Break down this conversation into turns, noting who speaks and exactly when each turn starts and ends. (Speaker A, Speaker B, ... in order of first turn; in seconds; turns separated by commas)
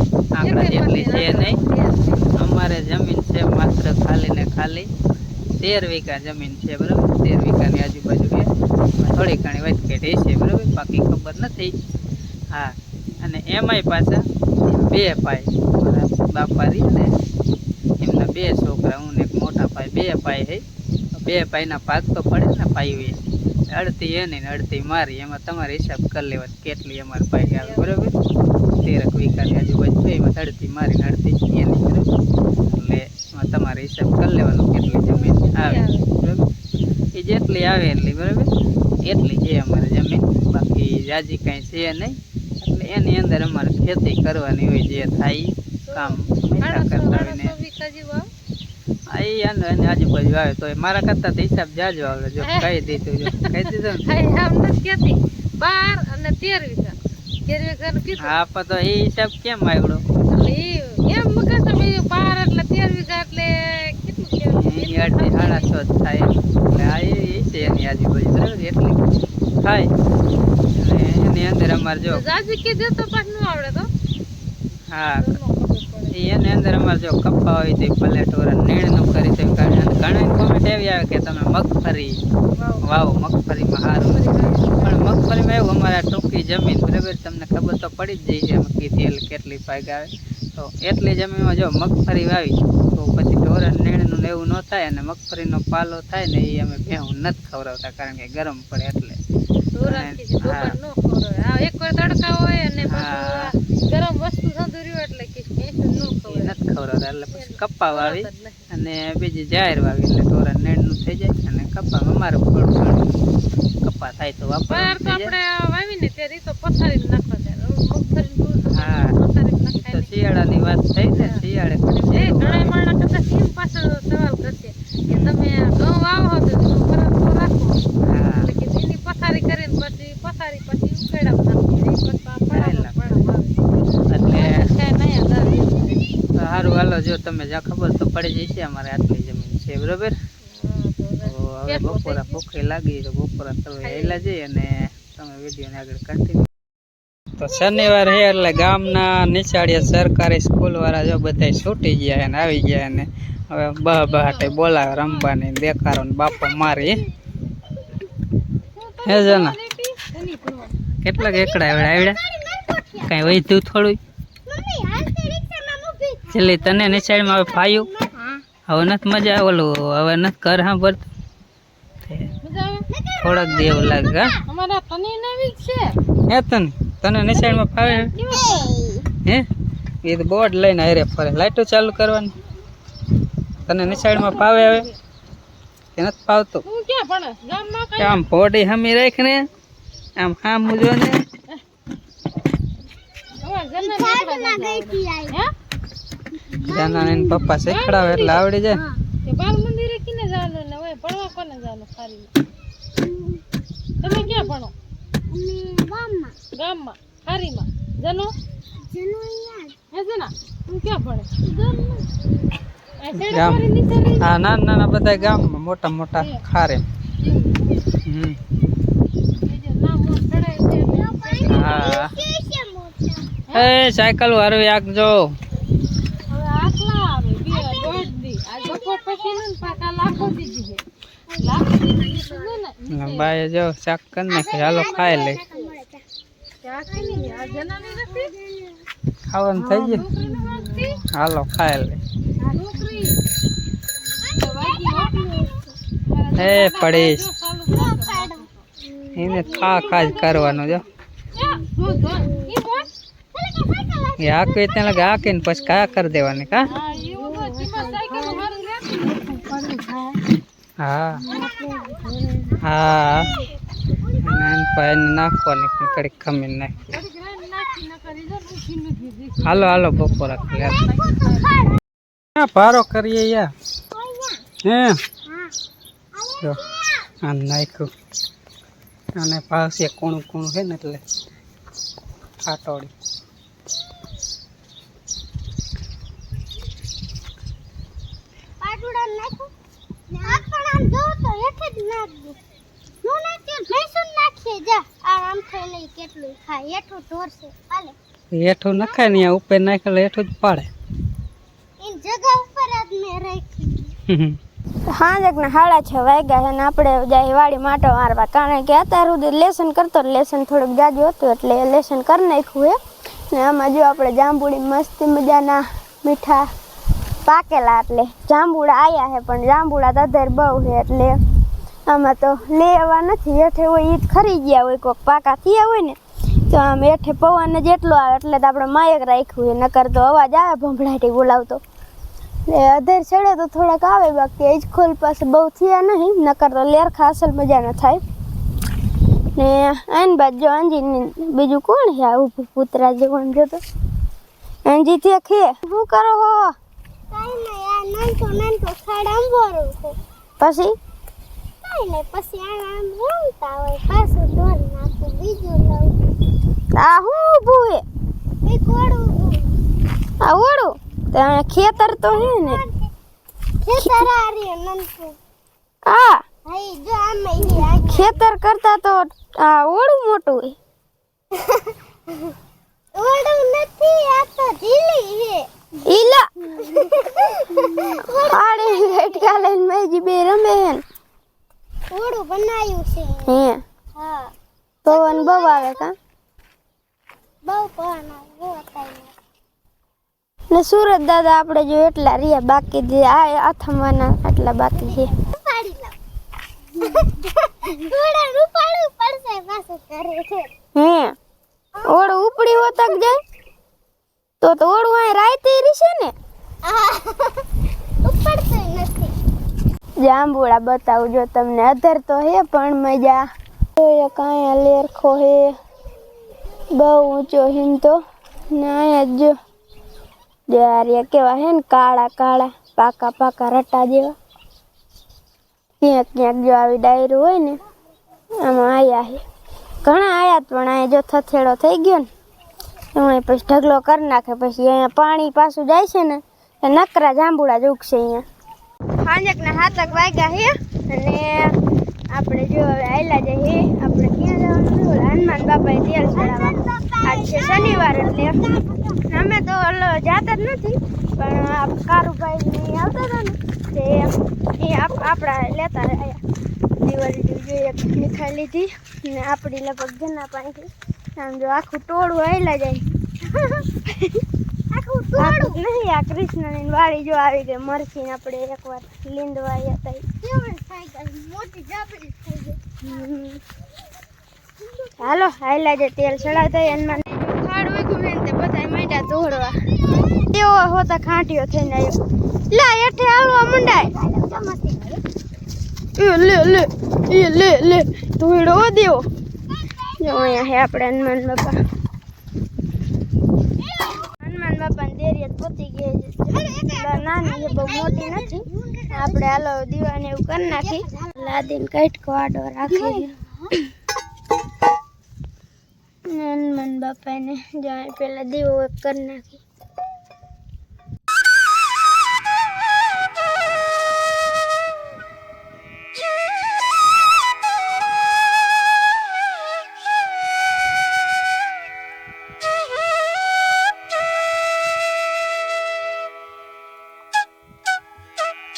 Speaker A: 0.3-1.6, Speaker B: 0.4-2.4, Speaker A: 2.3-4.9, Speaker A: 5.6-11.7, Speaker A: 12.5-17.1, Speaker A: 18.0-20.6, Speaker A: 21.1-23.2, Speaker A: 23.7-28.1, Speaker B: 27.6-27.9, Speaker A: 28.8-36.4, Speaker B: 34.9-36.1, Speaker A: 37.1-38.5, Speaker A: 39.0-47.5, Speaker B: 45.8-48.3, Speaker A: 49.1-54.1, Speaker B: 52.4-58.3, Speaker A: 58.2-60.0, Speaker B: 60.3-65.7, Speaker A: 64.5-69.1, Speaker A: 69.6-69.9, Speaker A: 70.8-72.2, Speaker B: 72.1-73.9, Speaker A: 74.9-75.4, Speaker B: 75.2-76.2, Speaker A: 76.1-82.2, Speaker B: 82.5-83.2, Speaker A: 82.8-84.2, Speaker B: 84.0-85.0, Speaker A: 84.8-99.2, Speaker B: 99.7-106.6, Speaker A: 99.8-100.7, Speaker A: 102.8-103.5, Speaker A: 105.9-113.2, Speaker B: 107.3-108.7, Speaker A: 113.8-115.3, Speaker B: 114.7-120.1, Speaker A: 118.7-119.1, Speaker A: 119.7-122.8, Speaker B: 121.1-121.4, Speaker B: 122.1-127.8, Speaker A: 125.1-125.4, Speaker A: 128.0-128.5, Speaker B: 128.4-136.1, Speaker A: 132.5-133.2, Speaker A: 134.1-134.7, Speaker A: 136.4-140.2, Speaker B: 140.4-142.4, Speaker A: 141.2-146.5, Speaker B: 143.8-144.2, Speaker A: 147.4-157.0, Speaker C: 147.5-149.1, Speaker B: 153.9-155.3, Speaker C: 156.3-156.9, Speaker B: 158.7-160.8, Speaker A: 159.0-159.6, Speaker A: 161.0-162.2, Speaker C: 161.2-163.3, Speaker A: 163.0-164.0, Speaker C: 164.4-168.1, Speaker A: 166.3-167.9, Speaker A: 168.7-171.1, Speaker B: 172.4-172.8, Speaker C: 172.9-174.4, Speaker A: 173.2-174.3, Speaker B: 174.4-175.9, Speaker A: 176.3-178.1, Speaker B: 177.3-178.7, Speaker C: 178.3-179.1, Speaker A: 180.0-182.3, Speaker A: 183.7-184.9, Speaker B: 183.8-185.0, Speaker A: 185.9-186.6, Speaker B: 186.7-188.2, Speaker A: 188.0-189.4, Speaker A: 190.2-191.2, Speaker B: 193.4-195.5, Speaker C: 193.8-195.4, Speaker A: 196.6-198.8, Speaker D: 196.7-197.5, Speaker B: 197.7-198.5, Speaker B: 199.2-202.3, Speaker B: 204.0-204.7, Speaker C: 204.1-204.3, Speaker D: 205.3-206.3, Speaker B: 206.5-208.3, Speaker D: 208.9-209.6, Speaker B: 209.9-212.1, Speaker B: 213.0-214.3, Speaker A: 213.1-213.7, Speaker A: 214.2-216.8, Speaker B: 217.2-217.8, Speaker A: 218.1-218.4, Speaker B: 219.3-222.0, Speaker C: 220.9-223.4, Speaker A: 221.5-222.1, Speaker A: 223.5-225.3, Speaker B: 226.3-230.8, Speaker C: 227.5-230.5, Speaker C: 231.3-232.5, Speaker B: 231.4-233.3, Speaker A: 232.9-235.4, Speaker C: 234.3-236.0, Speaker B: 234.7-235.6, Speaker B: 236.6-238.3, Speaker C: 236.9-238.8, Speaker A: 239.3-240.1, Speaker B: 239.7-241.0, Speaker D: 239.7-240.9, Speaker A: 241.1-242.0, Speaker B: 242.4-243.2, Speaker C: 244.2-245.6, Speaker B: 244.2-245.4, Speaker B: 246.1-248.6, Speaker A: 246.4-247.2, Speaker C: 247.7-248.5, Speaker A: 249.1-250.8, Speaker C: 249.2-250.5, Speaker B: 249.2-252.9, Speaker C: 251.4-252.6, Speaker C: 253.3-255.3, Speaker A: 254.2-256.7, Speaker B: 256.7-260.2, Speaker C: 256.8-258.4, Speaker A: 260.8-261.2, Speaker B: 261.2-262.6, Speaker C: 261.3-262.1, Speaker A: 262.6-263.3, Speaker C: 263.2-264.7, Speaker A: 264.2-266.8, Speaker B: 266.8-271.6, Speaker A: 269.4-270.8, Speaker C: 270.6-271.8, Speaker A: 272.4-273.5, Speaker C: 273.9-274.4, Speaker A: 274.6-275.0, Speaker C: 275.3-275.5, Speaker C: 276.1-277.1, Speaker A: 277.2-277.9, Speaker A: 279.2-281.0, Speaker A: 282.4-282.9, Speaker C: 288.6-289.5, Speaker C: 290.1-292.4, Speaker C: 293.0-298.0, Speaker A: 298.3-300.7, Speaker C: 298.7-299.2, Speaker C: 301.8-303.9, Speaker A: 304.1-304.4, Speaker D: 304.9-312.8, Speaker D: 313.3-316.4, Speaker D: 317.2-321.1, Speaker D: 321.9-331.6, Speaker D: 332.5-338.0, Speaker D: 339.4-343.6, Speaker D: 344.6-346.5, Speaker C: 347.1-349.9, Speaker D: 350.4-350.7, Speaker C: 351.6-355.9, Speaker D: 356.7-357.8, Speaker C: 358.4-359.5, Speaker D: 360.2-362.6, Speaker C: 361.6-362.9, Speaker C: 363.6-365.2, Speaker D: 363.8-364.1, Speaker D: 365.8-366.2, Speaker C: 366.4-368.2, Speaker D: 367.8-370.6, Speaker C: 371.3-372.3, Speaker C: 372.9-375.5, Speaker D: 375.8-376.3, Speaker C: 376.6-379.4, Speaker D: 378.2-380.8, Speaker C: 381.9-383.3, Speaker D: 383.2-383.6, Speaker C: 383.9-384.3, Speaker D: 384.8-385.9, Speaker C: 384.9-385.9, Speaker C: 387.4-389.1, Speaker D: 390.5-395.1, Speaker C: 394.7-395.9, Speaker C: 396.8-400.5, Speaker D: 400.7-401.1, Speaker C: 401.7-403.0, Speaker D: 401.8-403.2, Speaker D: 404.4-406.1, Speaker C: 406.6-407.4, Speaker C: 408.0-409.1, Speaker D: 410.0-413.2, Speaker D: 413.8-415.5, Speaker D: 416.7-418.0, Speaker D: 418.5-419.3, Speaker D: 420.5-424.1, Speaker D: 425.8-427.6, Speaker D: 428.4-429.2, Speaker D: 429.8-432.1, Speaker D: 432.9-438.2, Speaker D: 439.0-441.5, Speaker C: 439.8-440.3, Speaker D: 442.1-448.4, Speaker C: 446.1-449.0, Speaker D: 449.1-456.2, Speaker D: 456.8-462.9, Speaker C: 463.3-463.6, Speaker C: 464.7-465.6, Speaker D: 465.2-470.0, Speaker C: 470.2-472.8, Speaker D: 472.8-473.4, Speaker C: 474.7-475.1, Speaker D: 475.0-479.5, Speaker C: 476.2-477.0, Speaker C: 479.9-480.3, Speaker D: 480.3-482.0, Speaker D: 482.5-483.9, Speaker C: 483.4-485.0, Speaker D: 485.9-489.0, Speaker C: 489.5-490.4, Speaker D: 490.0-491.6, Speaker C: 493.6-494.1, Speaker D: 494.2-503.1, Speaker C: 496.3-499.5, Speaker C: 500.5-501.5, Speaker C: 502.7-503.5, Speaker D: 506.1-509.4